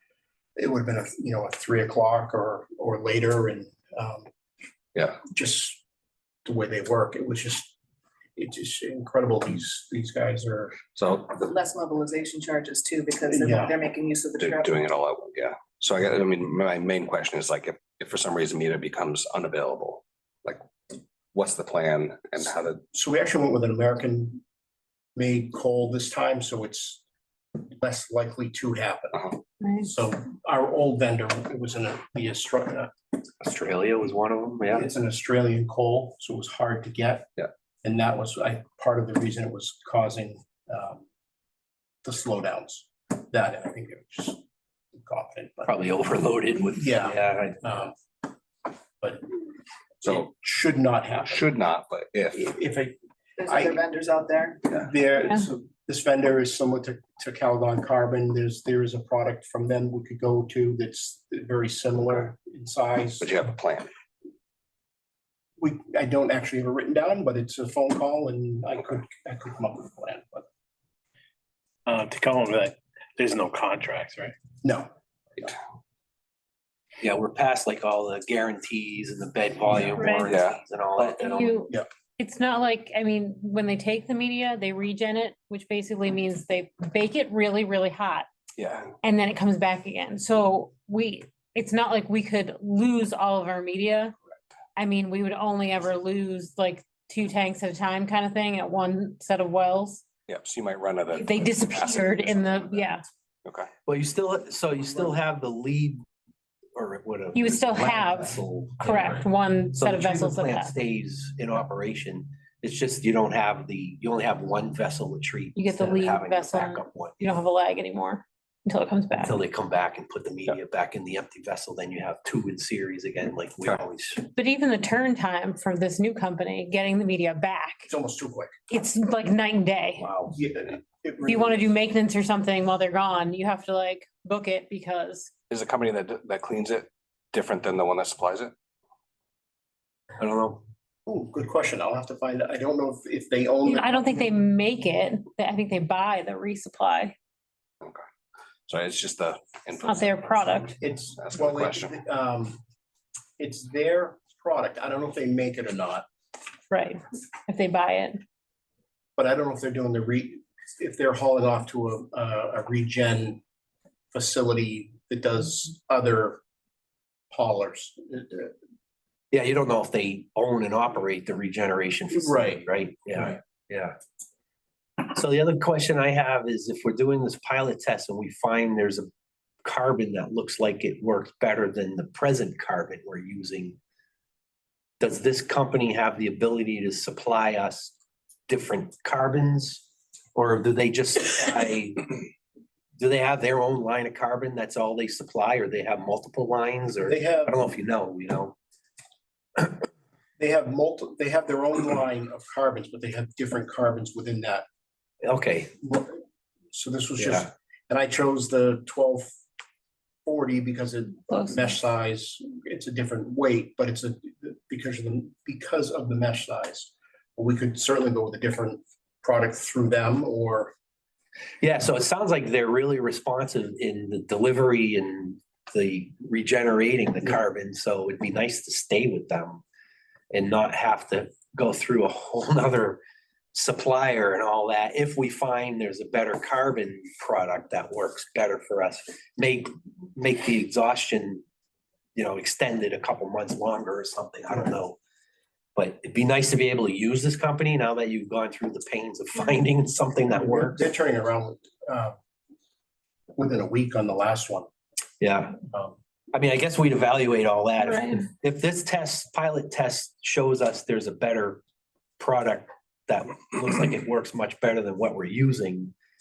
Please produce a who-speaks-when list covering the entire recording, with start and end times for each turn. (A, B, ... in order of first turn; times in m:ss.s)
0:00.6-0:04.3 A
0:05.2-0:05.8 A
0:06.4-0:07.7 A
0:08.4-0:11.0 A
0:11.0-0:11.3 B
0:11.4-0:14.8 C
0:13.3-0:13.8 A
0:14.4-0:20.6 B
0:21.3-0:22.8 B
0:22.9-0:24.4 A
0:25.2-0:27.0 A
0:27.7-0:32.9 A
0:29.6-0:29.9 D
0:33.4-0:34.9 E
0:34.7-0:37.3 A
0:37.8-0:41.0 A
0:42.0-0:44.4 A
0:44.9-0:45.7 A
0:45.6-0:47.8 E
0:46.8-0:48.0 A
0:49.0-0:49.3 A
0:50.0-0:51.4 A
0:50.0-0:50.3 B
0:51.2-0:52.4 B
0:52.3-0:53.8 A
0:53.4-0:54.6 C
0:54.6-1:03.4 A
1:03.2-1:03.9 B
1:05.6-1:10.4 A
1:11.9-1:14.3 F
1:14.6-1:15.6 A
1:17.0-1:21.6 E
1:20.0-1:20.3 D
1:20.3-1:20.6 B
1:21.0-1:28.3 D
1:28.6-1:28.9 B
1:29.0-1:34.1 D
1:34.8-1:40.0 D
1:40.3-1:42.9 B
1:41.1-1:43.0 D
1:43.8-1:46.0 E
1:46.7-1:57.2 E
1:47.3-1:50.7 D
1:55.5-1:59.4 D
1:59.2-2:04.3 E
2:04.3-2:07.9 D
2:07.9-2:08.5 A
2:08.7-2:10.1 D
2:10.0-2:10.3 E
2:10.3-2:11.7 A
2:11.2-2:15.3 D
2:15.5-2:18.5 B
2:20.2-2:20.6 E
2:21.0-2:24.3 A
2:23.6-2:27.1 D
2:28.7-2:30.3 B
2:29.8-2:30.8 D
2:30.7-2:32.6 A
2:31.2-2:32.0 B
2:33.4-2:36.0 A
2:36.7-2:38.2 D
2:39.2-2:43.4 A
2:44.1-2:46.4 A
2:47.3-2:48.5 A
2:49.3-2:54.0 E
2:52.1-2:52.6 A
2:55.1-2:59.1 E
2:59.6-3:03.8 E
3:05.0-3:07.9 E
3:08.5-3:09.8 E
3:10.3-3:12.1 E
3:13.0-3:18.6 E
3:17.0-3:17.6 A
3:20.4-3:24.6 A
3:25.2-3:25.7 E
3:25.8-3:26.2 A
3:26.7-3:29.4 A
3:27.2-3:27.5 E
3:30.2-3:40.7 A
3:31.3-3:31.8 D
3:41.6-3:49.6 E
3:50.3-3:53.0 E
3:53.5-4:01.4 E
4:02.2-4:05.0 E
4:05.8-4:10.8 E
4:10.3-4:12.2 A
4:13.4-4:14.7 A
4:15.2-4:15.6 E
4:15.7-4:16.0 A
4:16.3-4:21.6 E
4:17.8-4:18.2 D
4:22.2-4:25.9 E